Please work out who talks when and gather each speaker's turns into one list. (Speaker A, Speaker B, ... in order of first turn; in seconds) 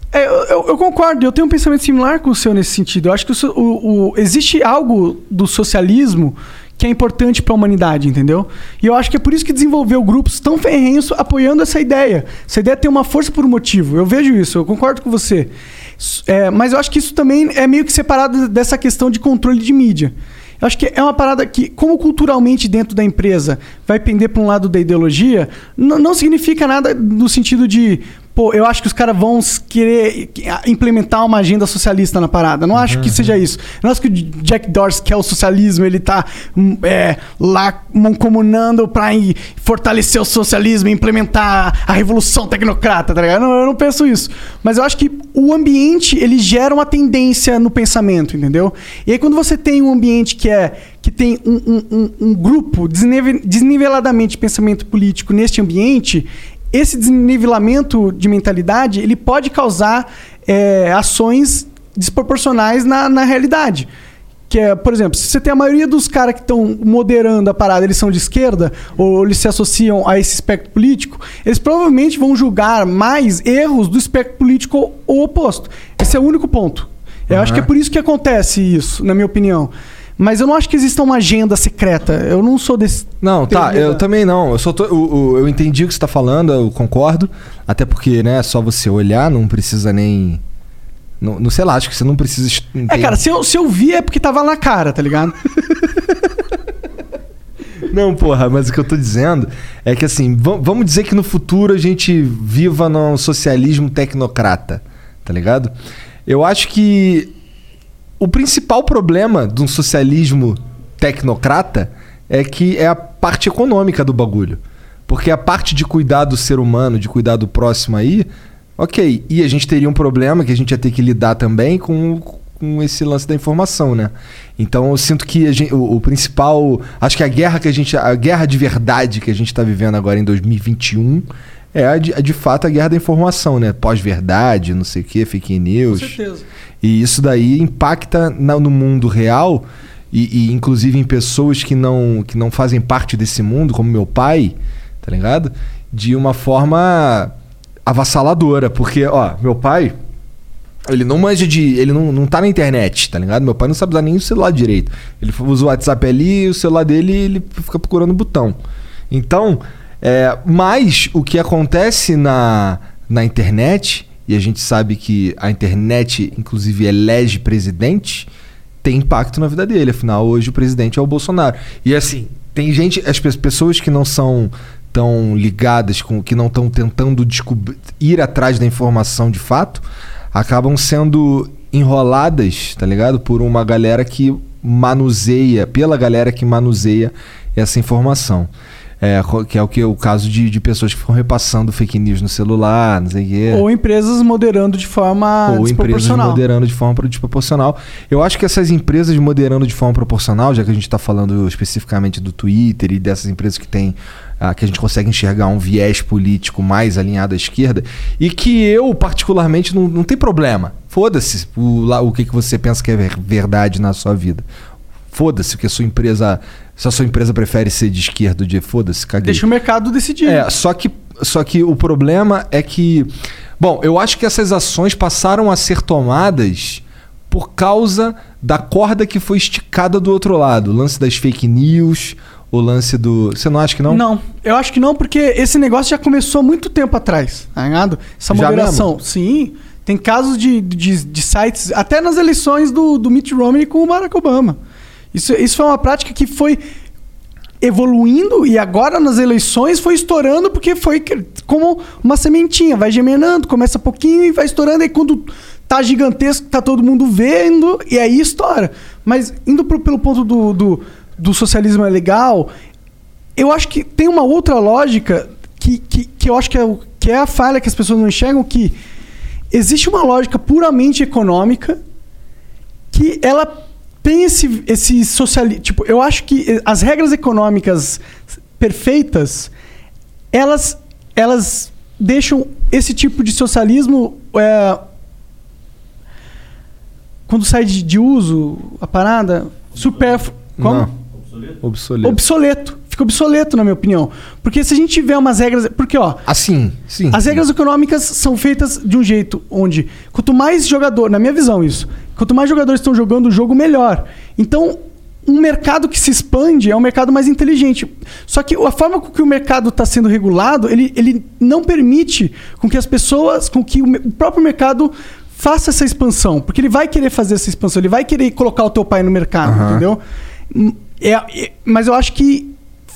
Speaker A: 0.1-63.9, 64.5-84.0, 92.9-95.4, 135.9-136.4, 193.5-196.4, 219.2-220.5, 233.9-244.6, 245.1-246.6, 247.6-262.5, 263.4-268.8, 269.5-271.8, 272.9-278.0, 278.6-279.5, 280.3-284.8, 287.3-290.9, 292.0-296.2, 297.1-322.5
Speaker B: 32.8-33.3, 77.3-77.7, 83.2-90.4, 91.2-93.2, 97.9-105.7, 106.2-107.3, 108.2-136.2, 136.8-147.3, 147.8-150.0, 150.8-158.6, 159.1-168.3, 168.8-193.6, 195.4-214.4, 215.1-219.4, 220.2-234.0, 238.3-238.9, 290.6-290.9, 291.6-292.2, 296.2-297.4, 319.4-319.9